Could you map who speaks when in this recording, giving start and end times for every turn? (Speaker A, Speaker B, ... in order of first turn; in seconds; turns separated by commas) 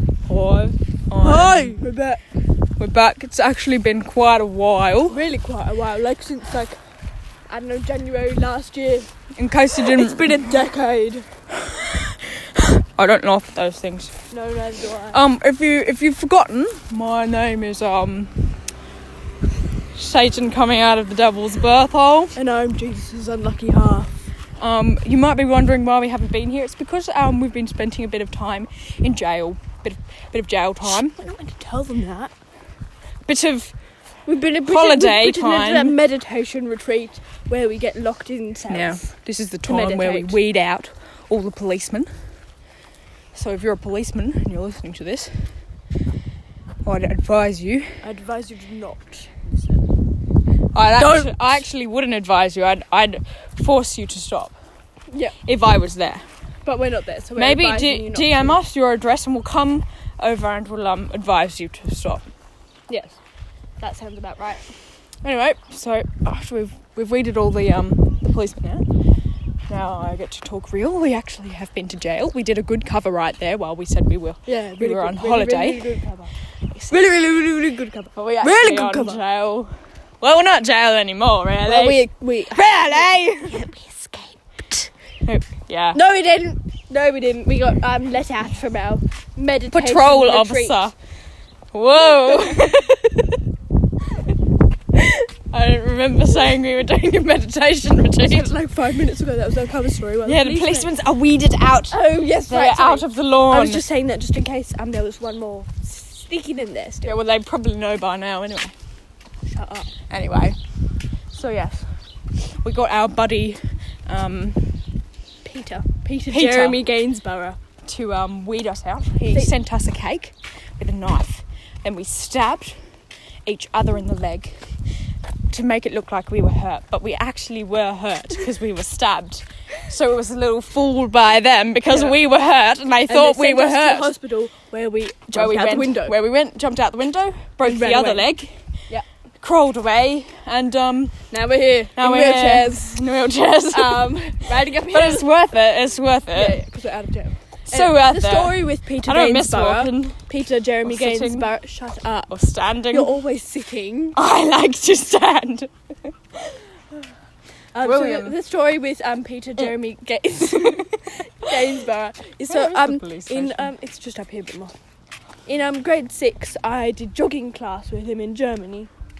Speaker A: 0.3-1.8, Speaker B: 1.2-2.2, Speaker A: 2.8-5.2, Speaker B: 5.1-6.8, Speaker B: 7.5-9.1, Speaker A: 9.3-10.6, Speaker B: 9.7-11.3, Speaker A: 11.6-14.1, Speaker B: 14.3-15.2, Speaker A: 15.1-18.5, Speaker A: 19.9-22.3, Speaker B: 22.3-24.1, Speaker A: 24.6-31.2, Speaker B: 30.8-32.3, Speaker A: 33.2-33.7, Speaker B: 34.2-39.0, Speaker A: 34.6-36.0, Speaker A: 38.7-42.1, Speaker B: 39.6-40.4, Speaker A: 43.3-45.4, Speaker A: 46.8-47.9, Speaker B: 48.0-49.9, Speaker A: 50.7-54.5, Speaker B: 51.0-51.6, Speaker B: 55.1-55.4, Speaker A: 55.5-56.2, Speaker B: 56.6-58.6, Speaker A: 57.4-62.3, Speaker B: 62.9-63.2, Speaker B: 63.8-64.7, Speaker A: 65.2-68.8, Speaker A: 69.7-75.8, Speaker B: 74.5-79.2, Speaker A: 76.9-77.2, Speaker A: 78.2-83.7, Speaker B: 81.6-84.9, Speaker A: 85.2-86.0, Speaker B: 85.9-90.9, Speaker A: 89.7-90.9, Speaker A: 91.7-93.3, Speaker A: 94.9-98.5, Speaker B: 98.2-100.9, Speaker A: 100.2-102.0, Speaker B: 101.9-107.2, Speaker A: 102.5-103.8, Speaker A: 107.0-108.7, Speaker B: 109.5-109.9, Speaker A: 110.1-110.6, Speaker A: 111.3-111.8, Speaker A: 112.6-114.7, Speaker B: 115.4-117.6, Speaker A: 116.3-116.8, Speaker A: 117.8-122.8, Speaker A: 123.4-124.6, Speaker A: 125.5-134.1, Speaker B: 131.9-132.2, Speaker B: 133.1-136.1, Speaker A: 135.3-138.5, Speaker B: 137.6-138.3, Speaker A: 139.4-141.1, Speaker B: 141.3-143.0, Speaker A: 142.0-144.2, Speaker B: 143.7-145.3, Speaker A: 144.9-146.6, Speaker B: 146.3-152.3, Speaker A: 147.7-150.2, Speaker A: 150.8-151.5, Speaker A: 152.3-153.1, Speaker B: 152.9-154.2, Speaker A: 154.1-155.7, Speaker B: 157.7-164.7, Speaker A: 157.8-158.3, Speaker A: 160.4-161.0, Speaker A: 162.5-163.7, Speaker B: 165.4-168.9